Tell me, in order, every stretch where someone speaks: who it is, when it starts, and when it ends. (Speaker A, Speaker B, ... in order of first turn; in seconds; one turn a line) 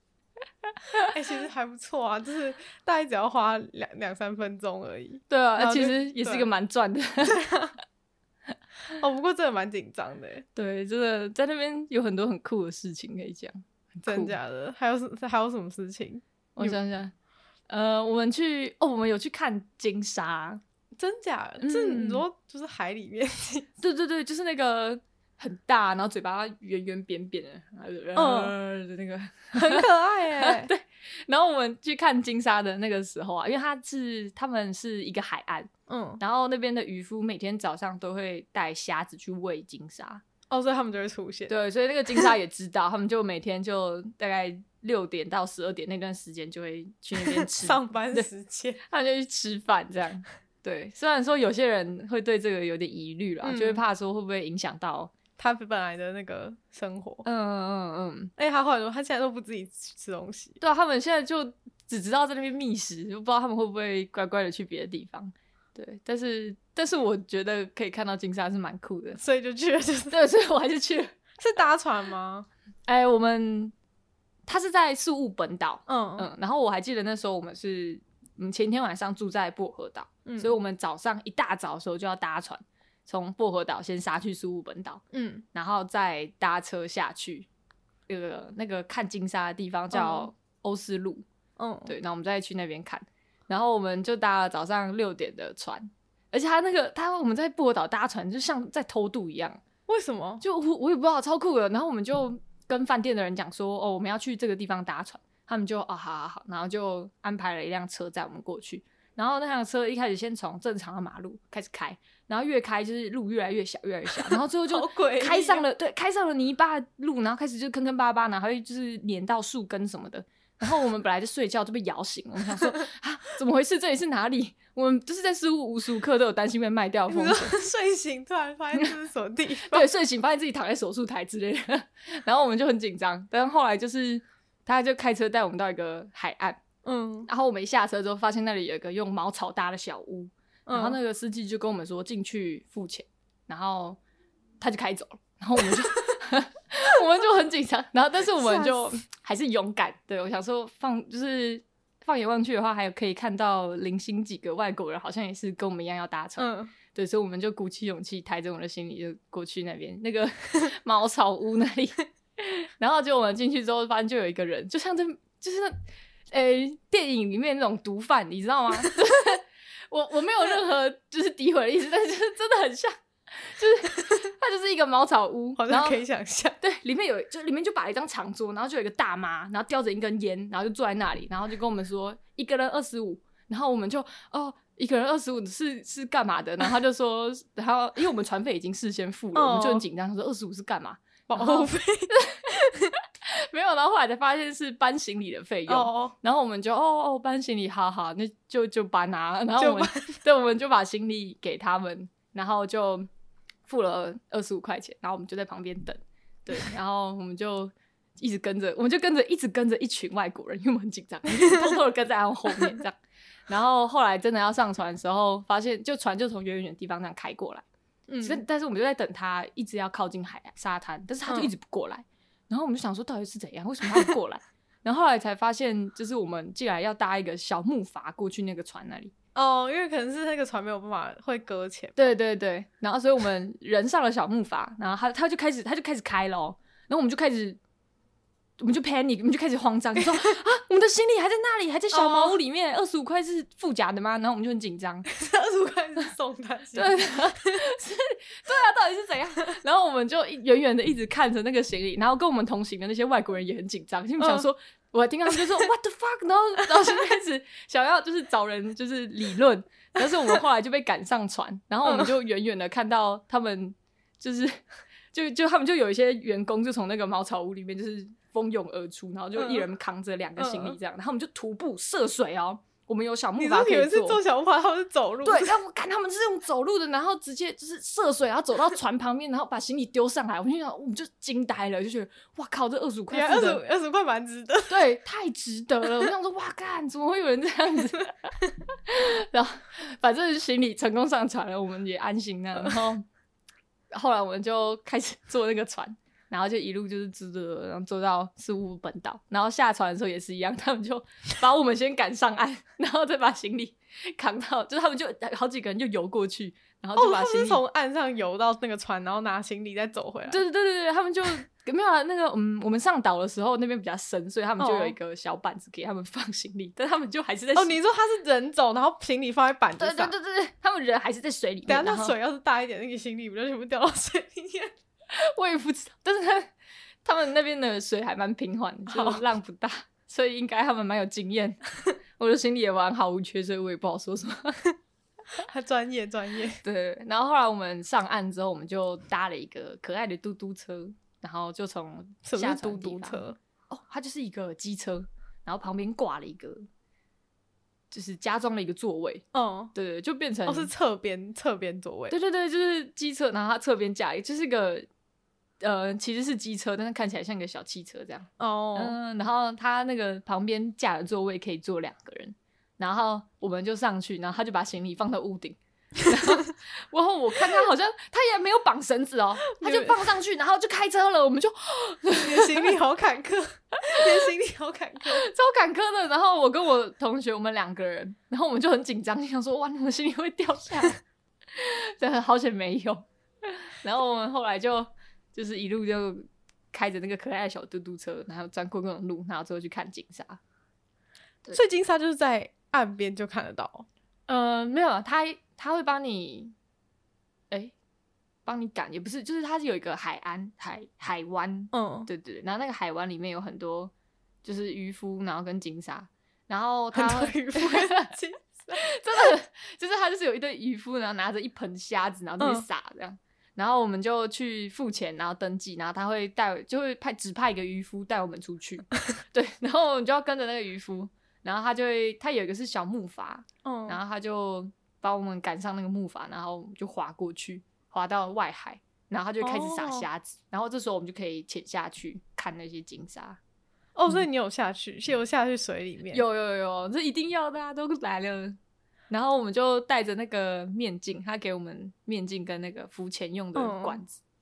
Speaker A: 0.7-1.1
Speaker B: 1.1-6.5
Speaker A: 5.3-7.4
Speaker B: 7.2-7.8
Speaker B: 9.0-10.4
Speaker A: 10.6-14.3
Speaker B: 14.1-16.8
Speaker A: 16.6-17.1
Speaker A: 17.7-20.6
Speaker B: 21.0-23.7
Speaker A: 21.6-22.2
Speaker A: 23.8-40.2
Speaker B: 28.1-28.5
Speaker B: 29.6-30.7
Speaker B: 35.9-36.2
Speaker B: 40.5-41.5
Speaker A: 41.5-48.3
Speaker B: 47.2-48.8
Speaker A: 48.8-55.1
Speaker B: 53.4-53.8
Speaker B: 55.4-57.2
Speaker A: 57.2-58.3
Speaker B: 58.4-60.6
Speaker A: 60.6-69.2
Speaker B: 69.2-70.1
Speaker A: 70.1-71.1
Speaker B: 71.4-72.5
Speaker A: 72.9-73.7
Speaker A: 74.5-85.0
Speaker B: 75.9-76.3
Speaker B: 80.3-80.5
Speaker B: 85.1-85.4
Speaker A: 85.5-87.5
Speaker A: 88.1-91.2
Speaker B: 89.9-90.3
Speaker B: 91.6-91.9
Speaker A: 91.9-99.6
Speaker B: 99.9-100.4
Speaker A: 100.4-127.6
Speaker B: 114.2-115.6
Speaker B: 127.1-129.9
Speaker A: 129.6-136.6
Speaker B: 136.8-137.3
Speaker A: 137.3-144.0
Speaker B: 140.7-141.0
Speaker A: 144.6-165.8
Speaker B: 148.3-148.9
Speaker B: 156.4-156.7
Speaker A: 166.3-176.0
Speaker B: 175.6-176.6
Speaker A: 176.6-203.1
Speaker B: 189.3-189.8
Speaker B: 191.3-192.9
Speaker B: 195.7-196.1
Speaker B: 199.6-200.2
Speaker A: 203.7-213.0
Speaker A: 213.5-217.6
Speaker B: 218.1-218.4
Speaker A: 218.2-229.1
Speaker B: 229.3-231.9
Speaker A: 231.9-237.6
Speaker A: 238.6-245.1
Speaker B: 241.9-242.4
Speaker B: 245.1-247.6
Speaker A: 246.7-264.6
Speaker B: 254.2-254.5
Speaker B: 261.8-262.1
Speaker A: 265.1-274.2
Speaker B: 269.4-269.6
Speaker B: 270.4-270.8
Speaker B: 273.4-275.6
Speaker A: 275.2-283.6
Speaker B: 283.1-284.8
Speaker A: 284.7-293.1
Speaker A: 293.9-307.6
Speaker B: 306.9-310.4
Speaker A: 310.3-317.8
Speaker B: 314.6-314.9
Speaker B: 317.6-320.1
Speaker A: 319.8-322.1
Speaker B: 321.6-324.7
Speaker A: 325.1-326.5
Speaker A: 327.0-334.6
Speaker B: 328.9-329.2
Speaker B: 335.4-336.6
Speaker A: 336.6-346.6
Speaker B: 342.3-343.4
Speaker A: 347.9-350.7
Speaker B: 349.3-349.7
Speaker B: 350.5-352.1
Speaker A: 352.1-354.9
Speaker A: 355.6-372.7
Speaker B: 358.4-358.9
Speaker B: 369.6-370.0
Speaker B: 372.2-375.3
Speaker A: 375.1-381.0
Speaker A: 381.6-390.4
Speaker B: 391.5-393.9
Speaker A: 394.3-396.5
Speaker A: 398.4-403.9
Speaker B: 401.7-402.1
Speaker A: 404.4-408.1
Speaker B: 406.9-408.9
Speaker A: 408.7-433.4
Speaker B: 412.4-412.6
Speaker B: 423.6-424.0
Speaker B: 429.4-430.1
Speaker B: 433.9-436.2
Speaker A: 436.1-438.6
Speaker A: 439.1-444.2
Speaker B: 443.6-444.0